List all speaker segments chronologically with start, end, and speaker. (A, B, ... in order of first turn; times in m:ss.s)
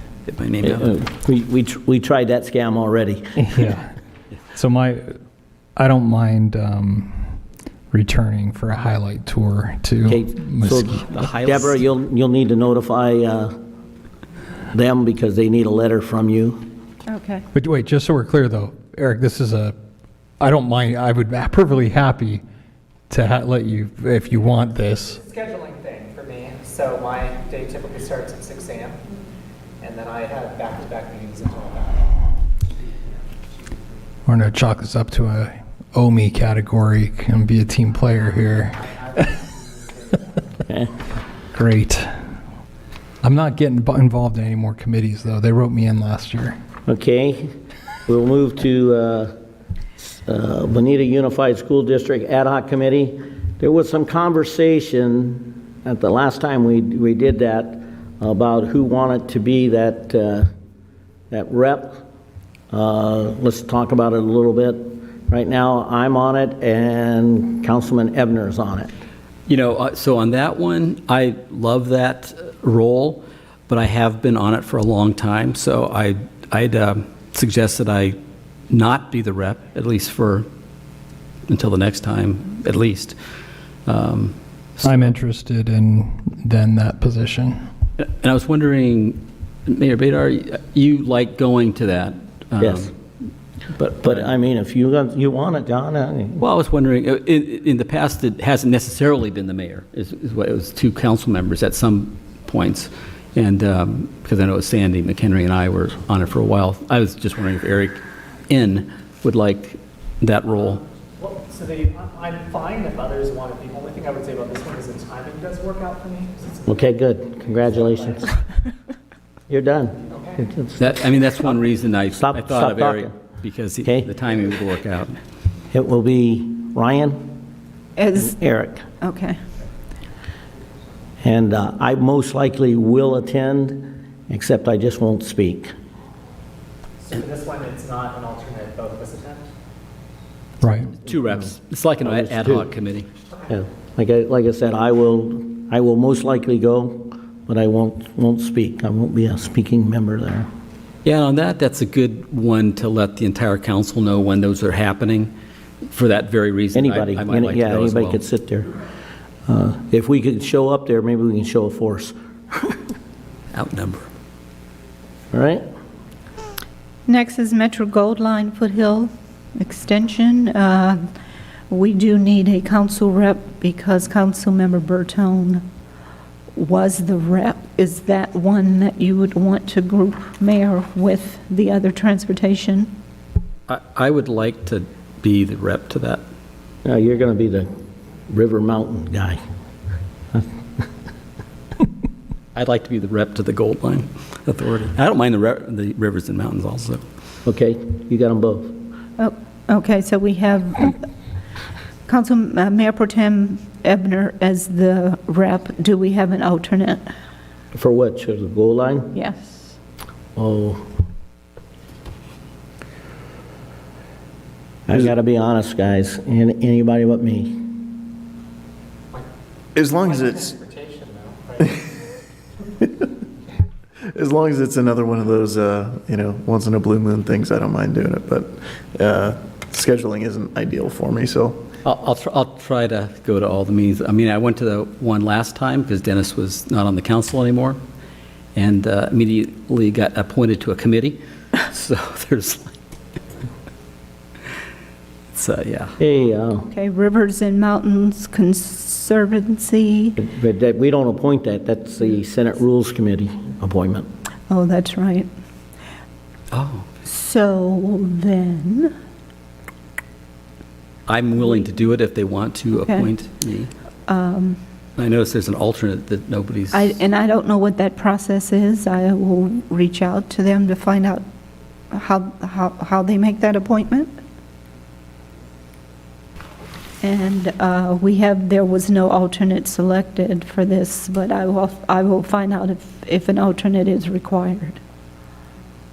0:00.2-0:01.0 A
0:00.6-0:03.3 B
0:03.4-0:03.9 C
0:04.5-0:05.1 C
0:05.8-0:07.2 C
0:07.9-0:11.0 C
0:10.0-0:13.5 B
0:10.9-0:11.8 A
0:14.7-0:16.6 B
0:17.1-0:17.4 D
0:17.5-0:19.8 C
0:20.4-0:22.4 C
0:23.1-0:25.2 C
0:25.1-0:29.0 E
0:29.8-0:32.1 E
0:34.3-0:38.8 C
0:38.8-0:39.2 E
0:40.7-0:41.0 B
0:41.5-0:42.1 C
0:43.2-0:46.6 C
0:46.9-0:47.5 B
0:48.1-0:49.3 B
0:50.1-1:00.5 B
1:01.3-1:02.0 B
1:02.7-1:08.9 B
1:09.5-1:18.2 A
1:18.7-1:20.4 A
1:21.5-1:23.1 A
1:23.9-1:25.1 A
1:24.8-1:27.6 C
1:28.0-1:32.9 A
1:32.6-1:32.9 B
1:33.8-1:36.4 B
1:34.0-1:34.3 A
1:36.4-1:48.0 A
1:48.5-1:50.8 A
1:51.2-1:56.7 E
1:56.7-1:58.3 B
1:59.5-2:00.9 B
2:00.1-2:00.4 E
2:00.8-2:05.2 A
2:02.1-2:03.1 B
2:05.7-2:07.2 B
2:08.0-2:08.4 D
2:08.4-2:08.8 B
2:09.0-2:09.4 D
2:11.2-2:15.7 B
2:17.1-2:19.5 E
2:20.6-2:20.9 C
2:20.9-2:23.1 A
2:22.0-2:22.6 B
2:23.5-2:30.5 B
2:31.0-2:35.3 A
2:35.9-2:38.2 A
2:36.7-2:38.7 B
2:39.5-2:42.7 B
2:43.5-2:44.1 A
2:45.3-2:45.6 B
2:47.1-2:51.1 D
2:51.7-2:55.6 D
2:56.6-3:02.9 D
3:03.7-3:06.2 A
3:06.8-3:07.7 B
3:08.3-3:09.4 B
3:12.6-3:17.0 A
3:17.5-3:18.8 B
3:19.2-3:21.0 D
3:22.1-3:27.0 D
3:27.7-3:29.1 B
3:29.1-3:29.7 D
3:30.4-3:30.8 B
3:34.9-3:37.7 B
3:39.8-3:40.5 F
3:40.0-3:41.7 E
3:41.6-3:41.9 F
3:44.0-3:51.7 F
3:51.8-3:57.8 A
3:58.6-4:02.8 A
4:05.3-4:05.9 A
4:06.0-4:06.7 B
4:06.7-4:10.2 D
4:10.2-4:14.1 B
4:14.5-4:15.3 D
4:16.5-4:16.9 A
4:17.0-4:18.9 D
4:21.1-4:23.7 A
4:22.8-4:23.1 D
4:24.1-4:24.6 D
4:25.0-4:27.0 A
4:26.7-4:31.2 D
4:31.9-4:34.1 D
4:37.0-4:44.8 D